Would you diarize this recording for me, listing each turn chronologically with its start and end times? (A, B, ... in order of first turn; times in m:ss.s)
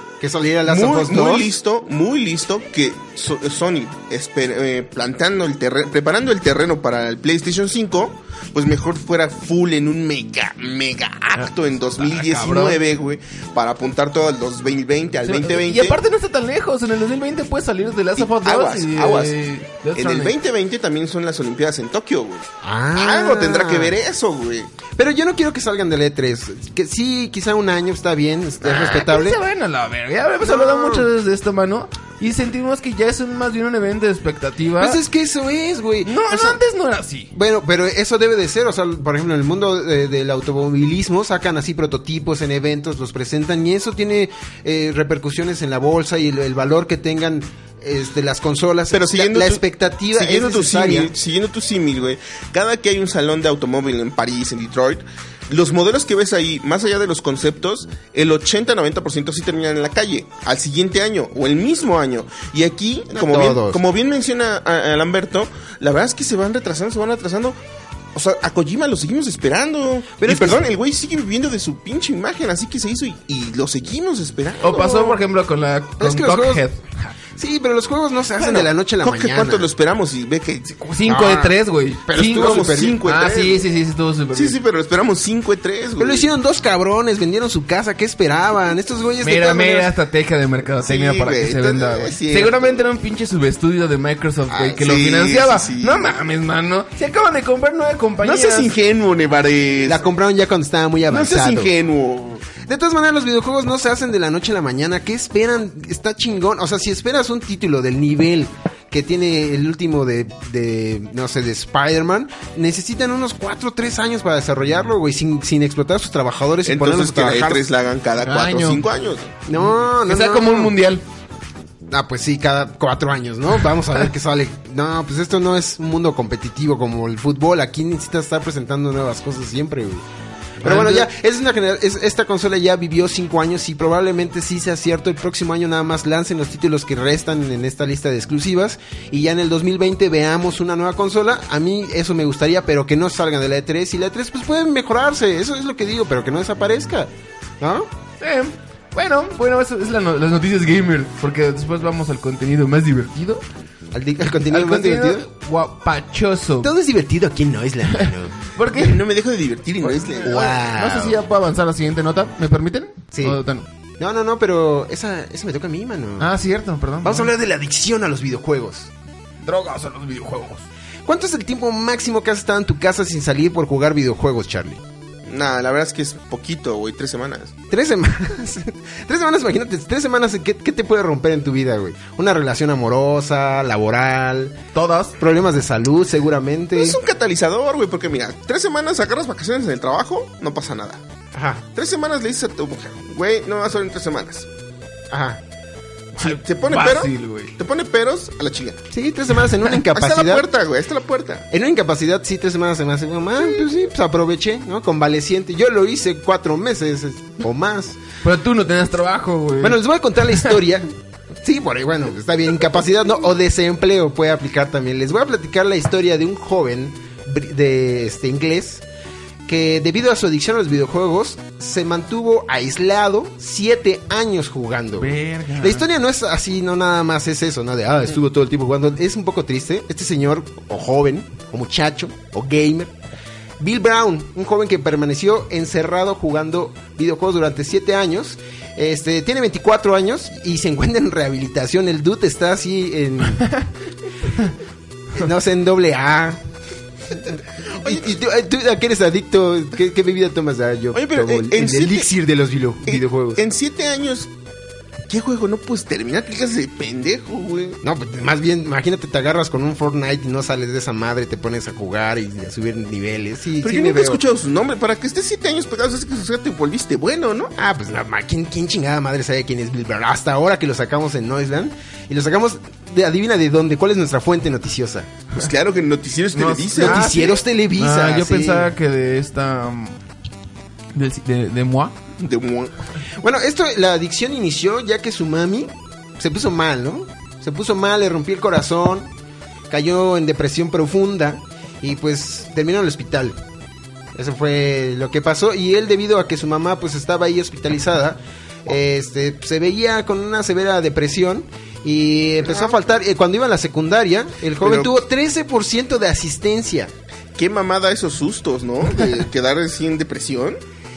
0:00.2-0:01.5 A
0:00.7-0:16.0 B
0:11.4-0:12.8 C
0:15.3-0:20.4 C
0:18.2-0:19.4 B
0:20.0-0:24.7 B
0:22.6-0:24.0 A
0:25.0-0:29.4 A
0:28.6-0:35.0 C
0:30.4-0:31.1 A
0:34.8-0:36.6 A
0:36.0-0:37.3 C
0:37.3-0:51.1 A
0:48.9-1:07.6 B
1:03.1-1:03.8 A
1:08.2-1:15.2 B
1:10.2-1:10.6 A
1:14.6-1:17.1 C
1:16.0-1:16.6 A
1:17.4-1:19.7 A
1:18.4-1:20.9 B
1:20.9-1:24.6 C
1:21.1-1:23.0 A
1:22.1-1:23.6 B
1:24.3-1:26.3 B
1:26.0-1:29.9 A
1:29.2-1:38.7 C
1:30.8-1:32.8 B
1:34.6-1:36.1 B
1:38.2-1:40.1 B
1:39.8-1:41.7 A
1:41.1-1:42.5 B
1:42.6-1:57.7 A
1:56.6-1:59.3 B
1:58.2-1:58.8 C
1:59.5-2:00.8 A
1:59.6-2:01.0 C
2:01.9-2:10.1 A
2:10.6-2:27.9 A
2:10.6-2:11.1 C
2:28.2-2:33.4 C
2:33.9-2:35.3 A
2:34.5-2:36.7 C
2:36.6-2:38.4 A
2:38.6-2:39.0 C
2:38.8-2:40.5 B
2:39.8-2:43.7 C
2:40.2-2:41.2 A
2:43.1-2:43.4 A
2:44.0-2:46.3 A
2:46.2-2:47.3 C
2:47.0-2:48.9 A
2:49.4-2:50.6 C
2:51.0-2:54.8 A
2:55.3-2:57.5 B
2:57.7-3:04.6 A
3:04.7-3:05.2 C
3:05.2-3:07.0 A
3:06.8-3:11.0 B
3:11.4-3:11.6 A
3:11.8-3:14.5 B
3:15.1-3:15.4 A
3:16.2-3:18.8 B
3:16.2-3:17.5 C
3:18.9-3:20.5 A
3:19.8-3:21.5 B
3:21.5-3:28.0 A
3:28.2-3:29.8 C
3:29.6-3:30.9 A
3:31.4-3:38.8 A
3:39.5-3:52.9 A
3:45.0-3:45.9 C
3:53.6-4:03.5 A
4:05.2-4:06.4 A
4:07.7-4:08.1 B
4:07.8-4:13.4 A
4:10.9-4:12.1 B
4:12.9-4:14.3 B
4:15.1-4:17.8 B
4:17.8-4:24.2 A
4:23.6-4:27.5 B
4:27.6-4:35.1 A
4:35.3-4:37.4 B
4:36.4-4:40.0 C
4:36.6-4:38.7 A
4:41.0-4:41.9 C
4:42.2-4:42.7 B
4:43.2-4:49.1 A
4:49.7-4:53.4 A
4:54.2-5:06.9 A
5:02.5-5:02.7 B
5:04.6-5:04.9 B
5:07.4-5:10.6 B